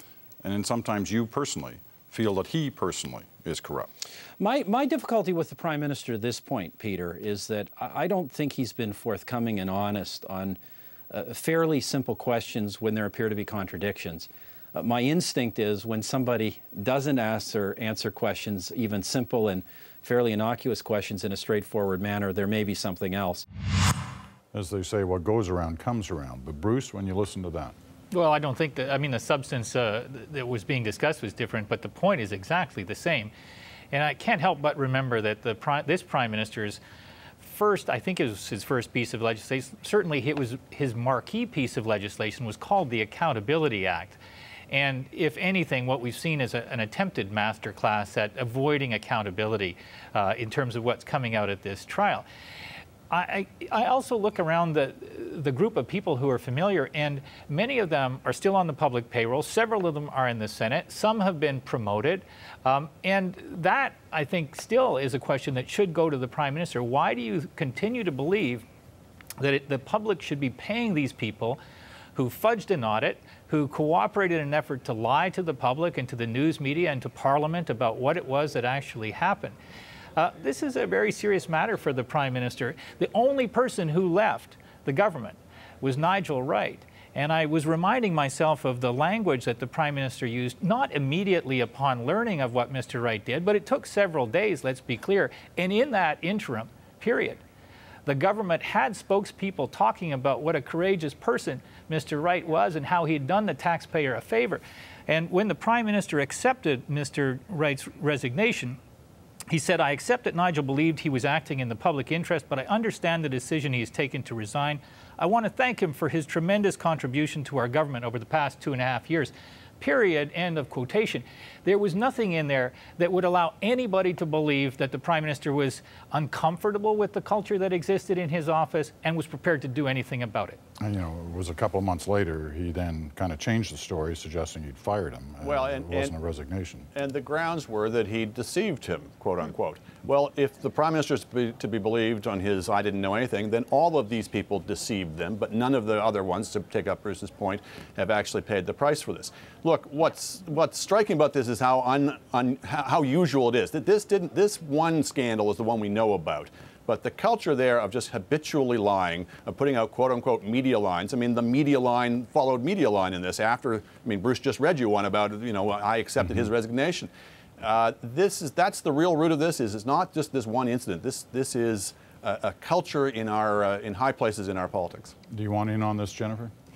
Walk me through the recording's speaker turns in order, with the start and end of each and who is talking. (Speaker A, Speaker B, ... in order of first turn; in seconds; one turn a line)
Speaker A: 0.4-3.9
Speaker B: 4.4-10.6
Speaker B: 11.1-23.4
Speaker A: 24.5-27.8
Speaker C: 28.1-33.3
Speaker C: 33.9-36.8
Speaker C: 37.4-44.2
Speaker C: 44.7-52.2
Speaker C: 53.1-68.7
Speaker C: 69.4-71.6
Speaker C: 72.2-79.5
Speaker C: 80.2-97.4
Speaker C: 98.1-108.8
Speaker C: 109.5-130.6
Speaker A: 130.8-136.9
Speaker D: 135.4-136.1
Speaker D: 136.9-175.1
Speaker A: 175.3-176.5